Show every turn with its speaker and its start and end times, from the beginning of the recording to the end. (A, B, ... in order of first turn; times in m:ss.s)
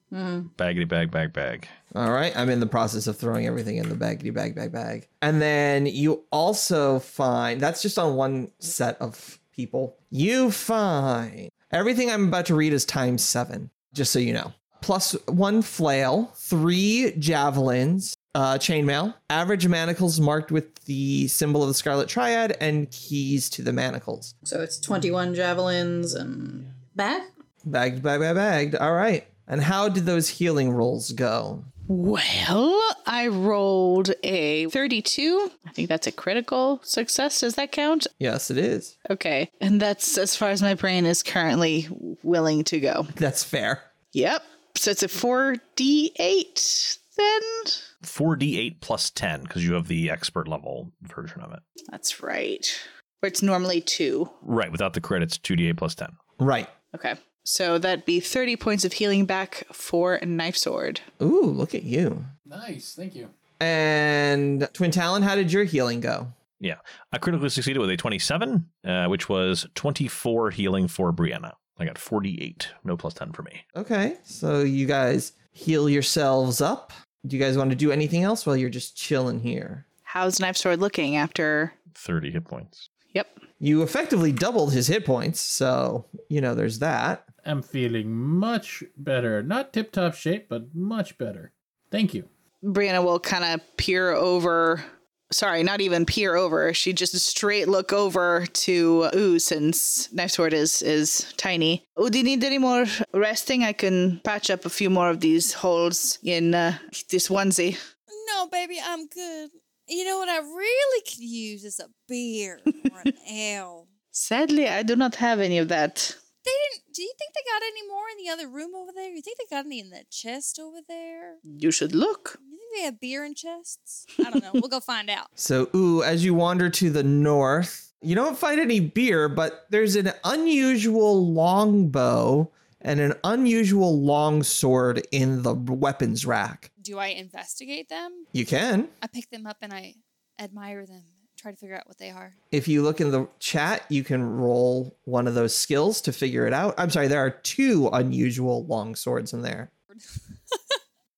0:00.1-0:00.5 A
0:00.6-0:01.7 B
0:01.9-0:24.3 C
0:24.4-0:27.3 A
0:27.6-0:31.7 C
0:31.9-0:38.1 D
0:38.2-0:39.0 C
0:39.1-0:43.1 D
0:43.2-0:43.9 C
0:44.1-0:47.8 D
0:48.0-0:51.6 B
0:51.9-0:54.3 D
0:54.4-0:56.2 B
0:56.4-0:56.7 C
0:56.9-1:01.0 D
1:01.2-1:02.3 C
1:02.5-1:03.3 E
1:03.6-1:06.3 C
1:06.6-1:13.6 B
1:13.8-1:19.9 C
1:20.1-1:21.7 D
1:21.9-1:22.9 B
1:23.1-1:23.4 D
1:23.6-1:27.3 C
1:27.4-1:32.3 E
1:32.6-1:47.8 D
1:48.1-1:53.9 F
1:54.1-1:56.2 D
1:56.4-2:01.4 F
2:01.5-2:02.4 D
2:02.4-2:05.3 F
2:05.4-2:16.7 C
2:16.8-2:18.3 F
2:18.3-2:18.9 C
2:19.0-2:22.4 F
2:22.5-2:29.7 C